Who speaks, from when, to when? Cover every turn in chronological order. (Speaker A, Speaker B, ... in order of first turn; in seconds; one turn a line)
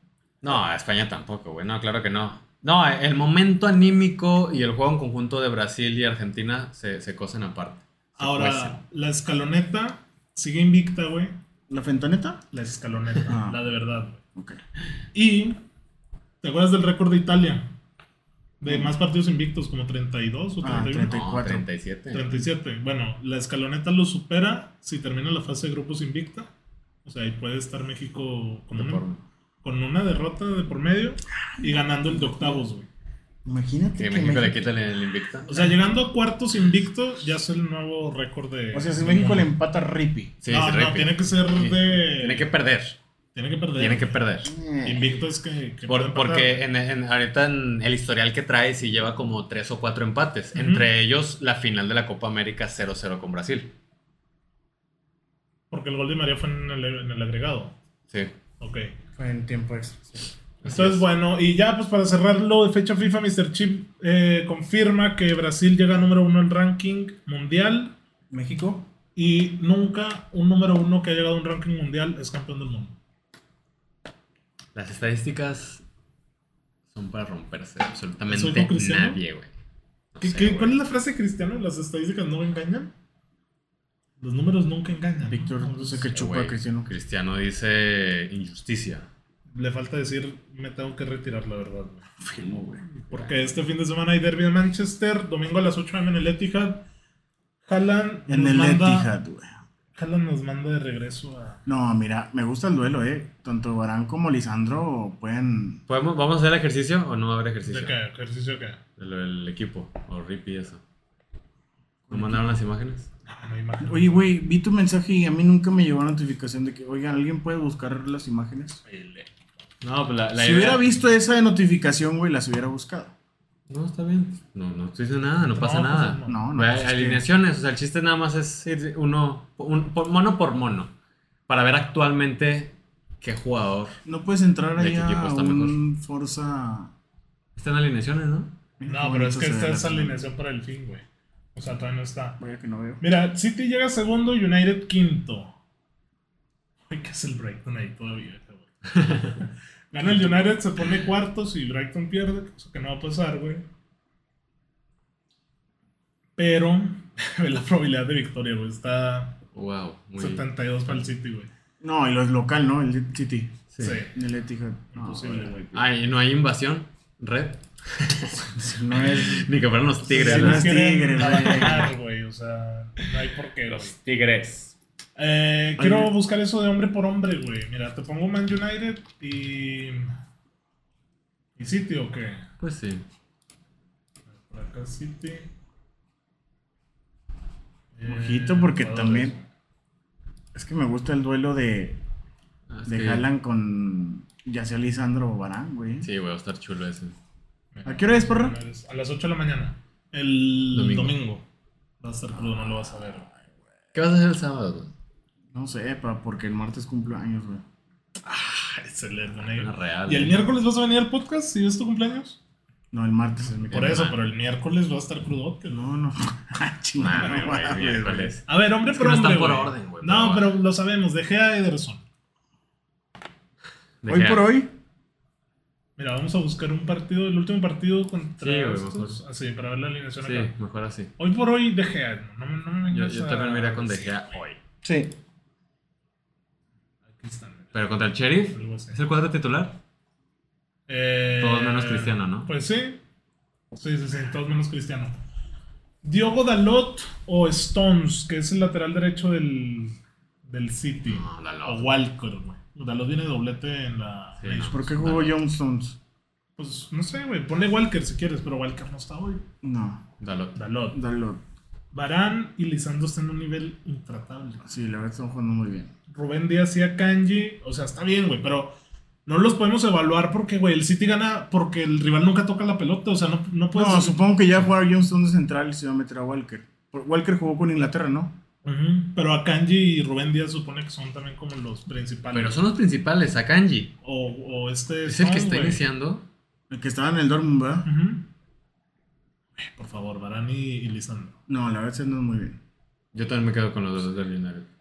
Speaker A: 0.4-8.8
Speaker B: 8.2-11.3
Speaker C: 11.7-12.4
Speaker B: 12.5-14.2
Speaker C: 13.2-13.6
Speaker B: 15.1-15.6
Speaker B: 16.4-17.7
Speaker B: 18.6-21.1
Speaker C: 18.6-18.9
Speaker C: 20.6-21.7
Speaker A: 21.0-22.3
Speaker B: 22.1-26.5
Speaker B: 27.0-29.0
Speaker A: 28.7-29.2
Speaker B: 29.6-32.9
Speaker C: 31.4-32.6
Speaker C: 33.4-34.7
Speaker A: 34.0-35.7
Speaker B: 35.5-39.5
Speaker C: 38.7-40.4
Speaker A: 40.4-43.0
Speaker B: 40.5-42.5
Speaker B: 43.3-44.2
Speaker A: 43.8-44.5
Speaker C: 44.4-45.0
Speaker B: 44.8-46.6
Speaker A: 45.9-53.7
Speaker B: 50.5-50.9
Speaker B: 55.7-57.7
Speaker B: 58.6-58.9
Speaker C: 59.1-60.3
Speaker A: 60.6-61.1
Speaker B: 60.6-67.9
Speaker C: 68.3-68.9
Speaker B: 69.2-73.0
Speaker A: 74.7-75.8
Speaker A: 76.9-79.5
Speaker B: 78.3-79.2
Speaker A: 80.1-80.8
Speaker B: 80.2-82.9
Speaker B: 84.2-86.1
Speaker C: 85.3-87.0
Speaker A: 86.0-89.1
Speaker B: 89.5-92.1
Speaker C: 92.2-92.8
Speaker A: 93.1-93.3
Speaker B: 93.1-96.8
Speaker B: 97.7-99.1
Speaker C: 98.3-99.5
Speaker B: 99.9-101.6
Speaker C: 101.7-105.8
Speaker A: 105.9-108.0
Speaker B: 107.6-108.8
Speaker A: 109.0-110.8
Speaker C: 112.1-112.6
Speaker A: 112.1-113.1
Speaker B: 113.3-114.3
Speaker C: 113.8-118.8
Speaker B: 118.9-119.2
Speaker A: 119.8-120.8
Speaker C: 120.3-123.1
Speaker A: 123.7-130.9
Speaker B: 125.4-126.4
Speaker C: 126.3-127.2
Speaker A: 131.5-134.0
Speaker C: 134.0-136.9
Speaker A: 134.8-135.8
Speaker A: 137.6-138.5
Speaker C: 138.8-140.2
Speaker B: 138.9-141.0
Speaker B: 141.5-142.4
Speaker C: 142.4-143.0
Speaker B: 143.0-145.5
Speaker B: 146.9-153.6
Speaker B: 156.4-159.4
Speaker A: 159.5-161.0
Speaker B: 160.2-161.5
Speaker C: 161.8-163.6
Speaker A: 163.7-164.0
Speaker B: 163.8-164.2
Speaker C: 164.1-165.8
Speaker B: 164.9-165.6
Speaker A: 165.7-171.9
Speaker C: 168.5-169.5
Speaker C: 170.1-171.9
Speaker B: 170.1-173.9
Speaker A: 173.7-174.7
Speaker B: 175.2-180.1
Speaker C: 175.8-176.1
Speaker B: 181.6-182.5
Speaker A: 182.6-183.0
Speaker B: 184.4-185.5
Speaker B: 187.9-189.4
Speaker C: 188.1-189.3
Speaker C: 190.5-192.0
Speaker A: 192.7-193.2
Speaker C: 192.8-196.1
Speaker A: 196.0-197.2
Speaker B: 197.7-201.4
Speaker C: 197.8-198.6
Speaker A: 200.7-201.1
Speaker B: 202.0-203.3
Speaker C: 202.3-202.9
Speaker A: 203.9-204.9
Speaker C: 205.5-207.6
Speaker B: 208.2-212.4
Speaker A: 209.5-210.4
Speaker C: 212.9-214.0
Speaker B: 213.7-215.8
Speaker A: 213.7-214.2
Speaker C: 215.7-218.3
Speaker A: 217.0-220.5
Speaker B: 218.5-222.0
Speaker A: 224.0-224.4
Speaker C: 224.1-224.7
Speaker B: 226.0-230.5
Speaker A: 228.4-229.2
Speaker A: 230.2-231.1
Speaker B: 231.2-234.3
Speaker A: 232.9-234.6
Speaker C: 234.8-235.1
Speaker B: 237.1-237.7
Speaker A: 237.7-239.8
Speaker B: 238.5-239.0
Speaker B: 240.9-243.0
Speaker A: 241.4-242.5
Speaker B: 243.8-245.2
Speaker B: 246.0-254.8
Speaker A: 251.1-251.9
Speaker A: 254.4-255.4
Speaker C: 254.6-256.0
Speaker B: 256.6-259.4
Speaker C: 259.6-260.1
Speaker A: 260.2-260.6
Speaker B: 260.5-261.0
Speaker C: 260.9-261.4
Speaker B: 261.9-264.6
Speaker C: 264.6-265.9
Speaker B: 266.1-268.7
Speaker B: 269.2-274.2
Speaker C: 273.7-278.4
Speaker B: 278.6-282.6
Speaker A: 282.3-283.9
Speaker B: 284.0-285.8
Speaker A: 285.1-286.2
Speaker C: 286.7-287.9
Speaker B: 287.8-288.3
Speaker B: 289.6-291.4
Speaker C: 291.5-292.6
Speaker A: 293.1-294.7